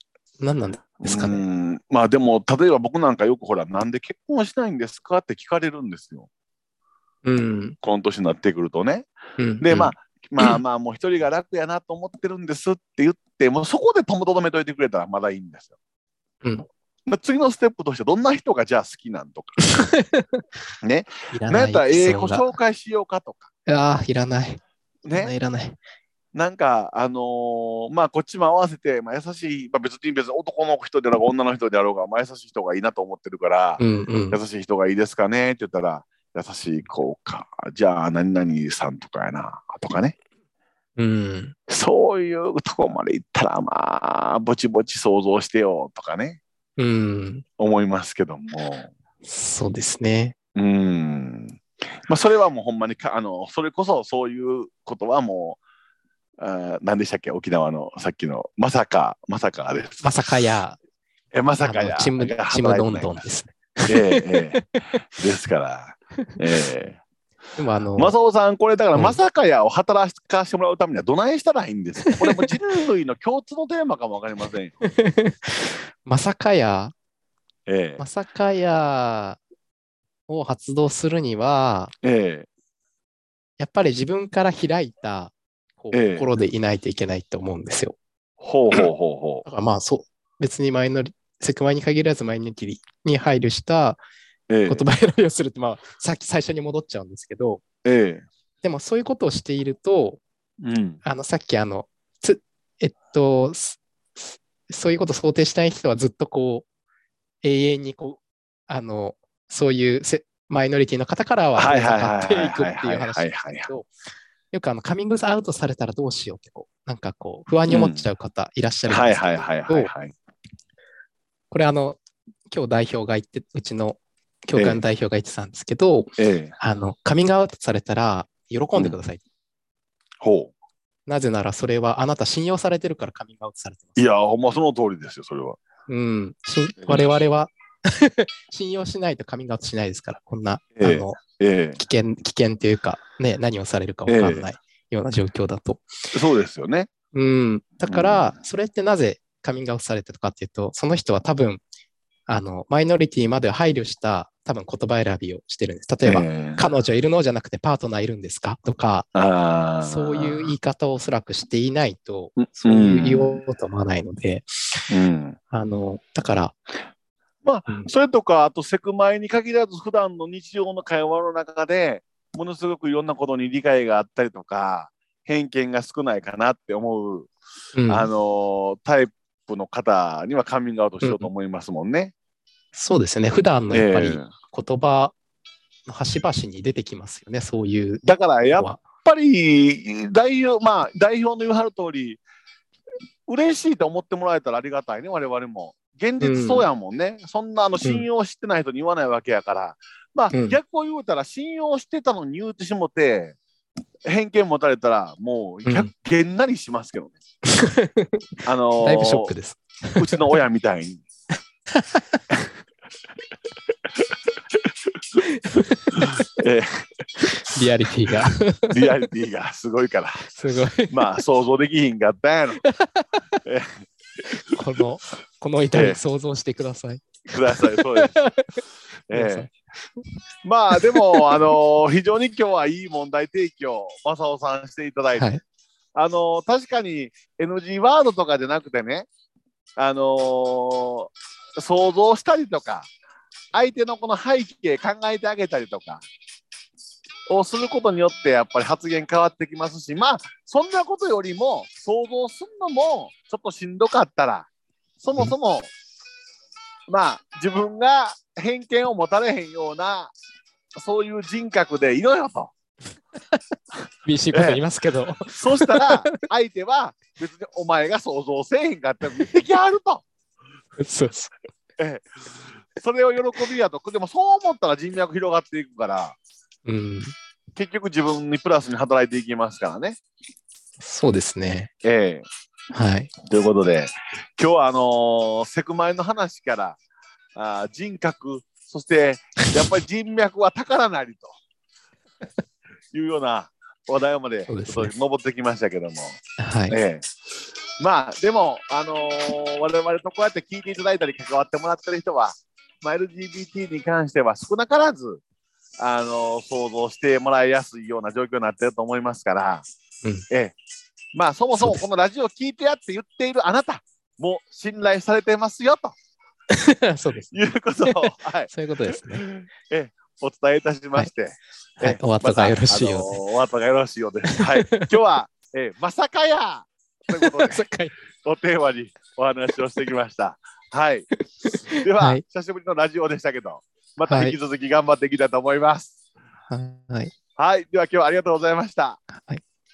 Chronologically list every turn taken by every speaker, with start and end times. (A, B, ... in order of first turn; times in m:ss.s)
0:00.4-0:01.4 A
0:01.0-0:06.3 B
0:07.2-0:07.8 A
0:07.8-0:09.1 B
0:09.4-0:10.6 A
0:09.6-0:15.7 B
0:17.1-0:19.6 B
0:19.6-0:20.4 A
0:20.8-0:23.5 B
0:21.3-0:22.5 A
0:23.7-0:24.6 A
0:25.0-0:25.3 B
0:25.1-0:25.8 A
0:26.3-0:33.8 B
0:33.8-0:34.4 A
0:34.3-0:40.2 B
0:41.0-0:41.6 A
0:41.7-0:46.4 B
0:46.8-0:47.4 A
0:47.6-0:48.9 B
0:49.2-0:50.4 A
0:50.6-0:55.6 B
0:56.4-1:00.2 B
1:00.0-1:00.8 A
1:01.3-1:03.3 B
1:01.6-1:05.0 A
1:03.9-1:07.0 B
1:07.6-1:08.2 A
1:08.0-1:14.8 B
1:12.0-1:12.5 A
1:14.8-1:16.9 A
1:17.7-1:18.0 B
1:18.0-1:19.4 A
1:20.3-1:21.9 A
1:22.0-1:22.5 B
1:23.6-1:28.0 A
1:25.9-1:26.3 B
1:28.4-1:29.5 B
1:29.5-1:34.0 A
1:34.5-1:34.8 B
1:34.7-1:37.6 A
1:37.8-1:38.3 B
1:38.6-1:40.2 A
1:40.6-1:41.0 B
1:41.0-1:46.7 A
1:47.4-1:53.9 A
1:51.6-1:53.7 B
1:54.5-1:59.9 A
1:57.7-1:58.1 B
1:58.9-2:00.1 B
2:01.5-2:09.2 A
2:04.6-2:04.8 B
2:06.2-2:06.6 B
2:10.2-2:10.5 B
2:11.1-2:14.0 A
2:14.0-2:15.6 B
2:15.9-2:21.2 A
2:16.8-2:17.1 B
2:20.8-2:21.8 B
2:21.8-2:25.9 A
2:24.1-2:24.5 B
2:26.1-2:26.9 B
2:27.1-2:31.6 A
2:27.8-2:28.4 B
2:32.3-2:39.1 A
2:36.0-2:36.7 B
2:39.1-2:40.5 B
2:39.8-2:44.8 A
2:42.4-2:43.4 B
2:44.9-2:45.4 B
2:45.5-2:46.6 A
2:47.4-2:57.3 B
2:57.8-2:58.1 A
2:57.9-3:02.1 B
3:01.0-3:01.3 A
3:02.7-3:05.2 A
3:03.7-3:04.3 B
3:05.9-3:08.8 A
3:08.0-3:12.2 B
3:13.3-3:23.4 B
3:16.2-3:16.7 A
3:20.3-3:20.6 A
3:24.1-3:27.2 B
3:25.6-3:25.9 A
3:27.5-3:28.2 A
3:28.4-3:29.3 B
3:28.8-3:30.4 A
3:30.0-3:31.0 B
3:31.7-3:32.2 A
3:34.5-3:35.2 B
3:35.3-3:36.2 A
3:35.9-3:37.3 B
3:37.3-3:39.1 A
3:38.7-3:40.3 B
3:40.4-3:41.0 A
3:40.9-3:42.6 B
3:42.6-3:43.2 A
3:43.4-3:43.9 B
3:44.3-3:48.6 A
3:45.7-3:46.0 B
3:47.3-3:48.2 B
3:49.1-3:49.5 B
3:49.1-3:50.0 A
3:50.4-3:55.3 B
3:50.7-3:51.4 A
3:55.1-3:55.4 A
3:56.0-3:59.1 B
3:59.8-4:02.9 B
4:03.5-4:06.0 B
4:07.3-4:14.5 B
4:15.0-4:15.7 B
4:16.9-4:20.1 B
4:20.8-4:22.5 B
4:24.1-4:26.3 A
4:24.3-4:24.6 B
4:25.3-4:30.0 B
4:30.8-4:31.3 A
4:31.8-4:32.2 B
4:32.7-4:36.2 B
4:36.7-4:37.2 A
4:37.6-4:40.0 B
4:40.8-4:41.7 A
4:41.8-4:42.3 B
4:42.7-4:43.1 A
4:43.2-4:46.8 B
4:47.4-4:51.4 B
4:52.9-4:57.1 B
4:54.5-4:54.9 A
4:56.4-4:56.8 A
4:57.8-5:05.2 B
5:05.8-5:09.6 B
5:10.3-5:10.6 B
5:11.2-5:16.0 B
5:11.5-5:11.8 A
5:16.5-5:17.3 A
5:17.3-5:27.7 B
5:17.8-5:19.2 A
5:21.8-5:23.1 A
5:24.3-5:24.9 A
5:27.1-5:27.9 A
5:28.2-5:31.1 B
5:31.2-5:32.2 A
5:31.8-5:36.0 B
5:34.1-5:34.4 A
5:36.5-5:37.2 A
5:37.4-5:39.0 B
5:39.1-5:39.4 A